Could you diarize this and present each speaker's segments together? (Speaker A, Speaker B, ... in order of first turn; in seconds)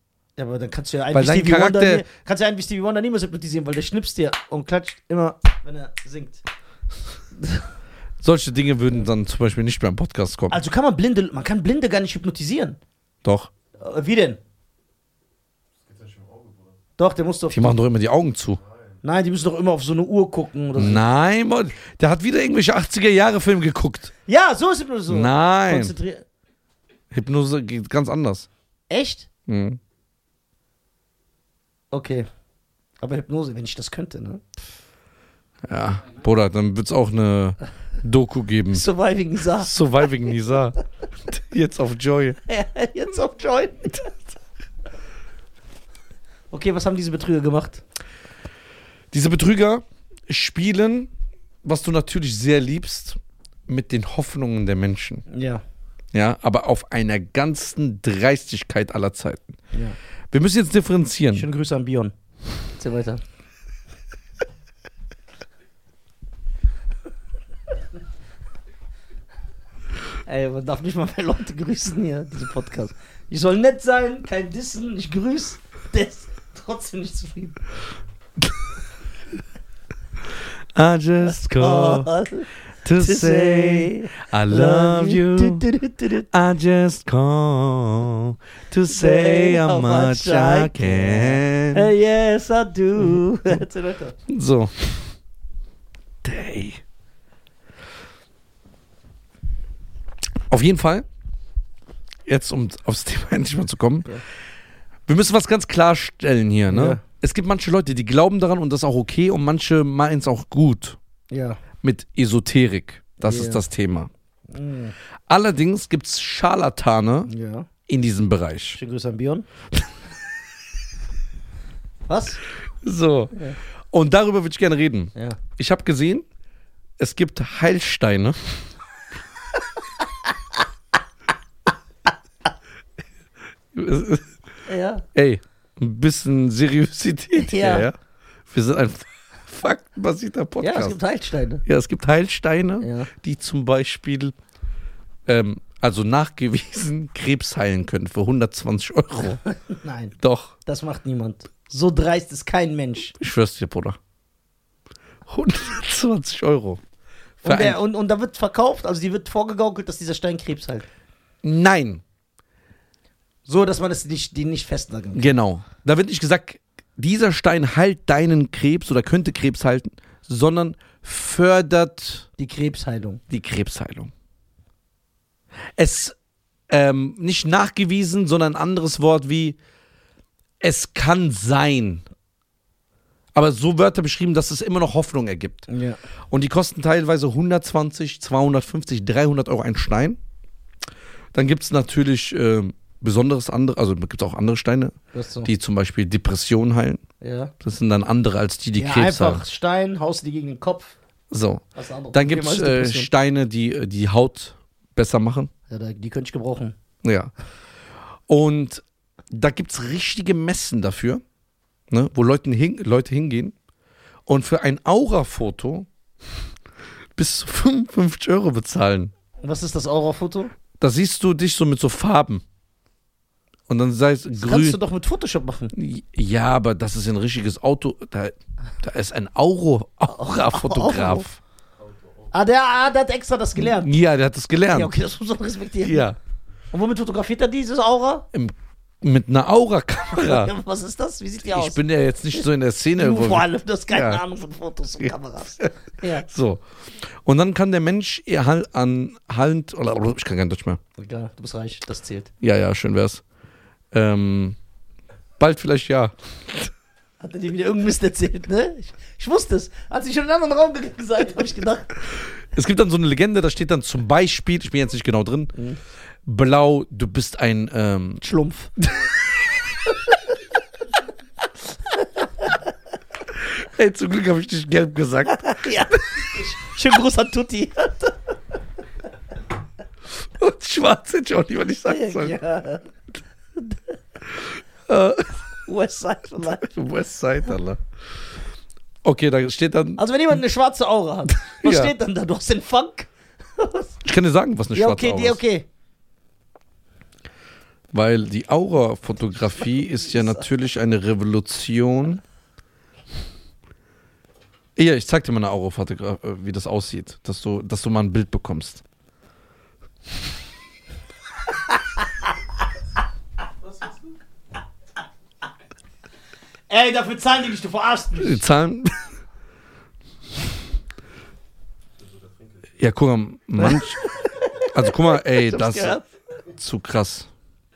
Speaker A: 0.4-6.4, 7.4-7.7, 10.5-12.8, 13.8-14.4, 17.0-17.8, 19.0-21.0, 24.3-26.2, 28.9-29.3, 31.9-32.3, 33.0-34.5, 38.7-40.1, 42.5-44.1, 46.5-47.8, 55.3-55.6, 61.3-62.1, 62.8-63.2, 70.2-77.6, 81.2-86.3, 88.9-94.2, 106.7-107.0, 111.3-111.6, 113.2-113.6, 114.5-115.0, 117.3-117.7, 118.8-119.5, 122.1-122.4, 134.7-135.1, 137.4-137.9, 140.6-141.6, 142.8-143.1, 149.4-153.1, 157.4-160.9, 163.5-165.3, 172.4-173.2, 185.7-186.0, 195.1-195.5, 197.2-197.5, 198.8-201.0, 201.8-203.1, 205.7-206.8, 219.4-220.5, 224.4-225.7, 230.1-231.3, 232.3-233.9, 234.7-236.1, 236.7-238.3, 240.1-241.8, 243.0-246.3, 251.0-252.3, 257.2-261.9, 268.2-268.7, 271.9-272.7, 275.3-278.3, 281.9-282.9, 283.6-284.0, 285.7-286.7, 290.0-294.0, 294.7-295.7, 311.8-312.1, 316.7-318.4, 323.6-326.0
Speaker B: 1.1-2.1, 8.2-10.6, 13.2-13.5, 17.5-18.6, 20.8-24.1, 25.1-25.9, 27.1-28.5, 29.5-29.8, 35.7-38.9, 39.6-42.4, 49.1-51.1, 51.6-55.3, 56.1-59.6, 60.3-61.5, 80.8-82.1, 82.8-85.7, 86.3-91.9, 94.3-95.1, 96.2-96.8, 100.5-101.1, 102.3-104.1, 105.1-111.0, 111.8-114.1, 115.3-117.3, 117.9-118.8, 122.8-123.4, 123.9-126.2, 127.0-128.7, 133.7-134.4, 135.1-138.0, 138.5-141.0, 141.7-144.3, 145.3-149.4, 150.2-150.6, 153.2-154.0, 155.3-156.8, 157.4-157.8, 161.4-162.0, 165.1-172.3, 173.3-174.1, 175.8-176.2, 176.7-179.6, 180.6-182.0, 183.3-185.7, 186.3-190.2, 191.3-197.0, 197.6-199.4, 201.3-205.5, 207.0-207.3, 208.3-211.2, 211.9-213.6, 214.3-215.9, 217.2-219.1, 220.8-222.4, 223.7-224.8, 225.7-231.4, 233.6-234.9, 235.8-236.2, 238.3-240.5, 241.4-244.2, 245.0-246.6, 247.2-250.8, 252.4-253.2, 253.9-254.6, 255.4-256.7, 262.5-265.5, 266.2-268.2, 273.4-275.7, 280.2-282.4, 284.4-285.4, 286.5-287.8, 289.0-290.0, 291.4-291.9, 294.1-295.4, 297.9-302.2, 304.8-308.8, 318.2-319.0, 322.8-326.0, 326.6-327.3
Speaker C: 15.8-16.8, 18.6-19.0, 231.8-232.3, 313.6-314.0